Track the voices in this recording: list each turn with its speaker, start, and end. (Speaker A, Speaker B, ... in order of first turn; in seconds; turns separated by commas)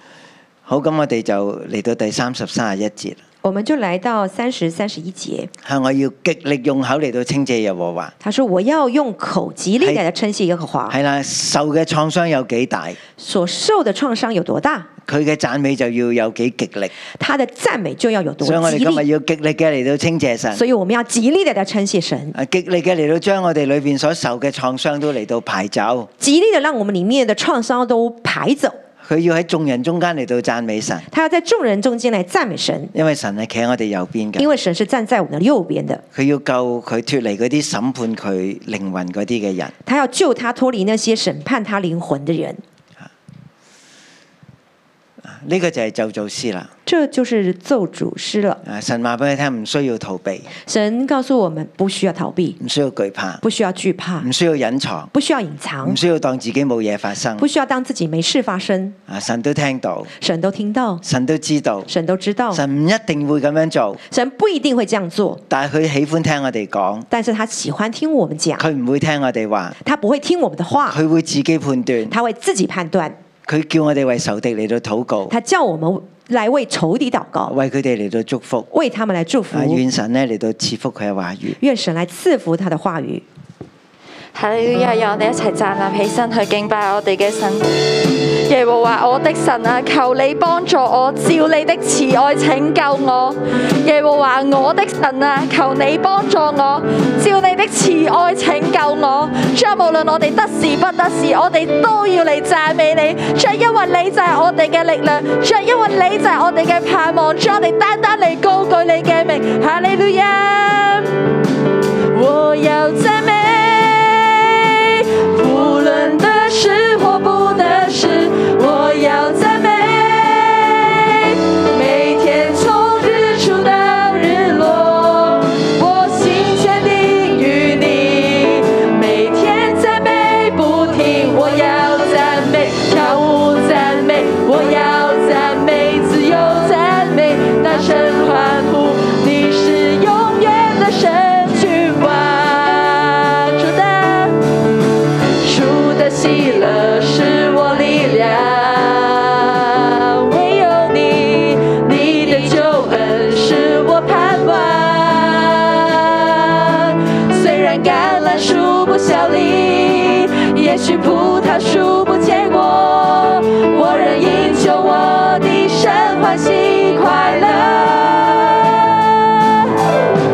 Speaker A: 0.7-3.2, Speaker B: 3.4-5.5, Speaker A: 5.6-8.1, Speaker B: 8.2-10.9, Speaker A: 10.9-13.0, Speaker B: 13.2-14.9, Speaker A: 15.1-16.9, Speaker B: 17.2-19.0, Speaker A: 18.4-20.6, Speaker B: 20.5-22.3, Speaker A: 22.3-26.1, Speaker B: 26.2-28.8, Speaker A: 29.0-31.1, Speaker B: 31.1-32.9, Speaker A: 32.9-34.5, Speaker B: 34.4-36.0, Speaker A: 36.1-39.7, Speaker B: 39.8-42.6, Speaker A: 45.2-46.7, Speaker B: 46.9-48.6, Speaker A: 48.6-50.5, Speaker B: 50.6-52.6, Speaker A: 52.6-53.4, Speaker B: 53.4-54.3, Speaker A: 54.2-55.1, Speaker B: 55.1-56.0, Speaker A: 55.8-57.5, Speaker B: 57.4-59.0, Speaker A: 59.1-60.1, Speaker B: 60.2-61.0, Speaker A: 61.0-61.9, Speaker B: 61.9-62.6, Speaker A: 62.5-64.0, Speaker B: 64.1-65.4, Speaker A: 65.5-67.1, Speaker B: 67.1-68.6, Speaker A: 68.6-69.8, Speaker B: 69.8-71.0, Speaker A: 70.9-72.2, Speaker B: 72.1-73.2, Speaker A: 73.5-75.3, Speaker B: 75.3-77.5, Speaker A: 77.5-78.7, Speaker B: 78.7-79.8, Speaker A: 79.5-81.6, Speaker B: 81.6-83.2, Speaker C: 84.3-87.7, Speaker C: 88.5-111.1, Speaker C: 112.1-144.4, Speaker C: 145.4-169.6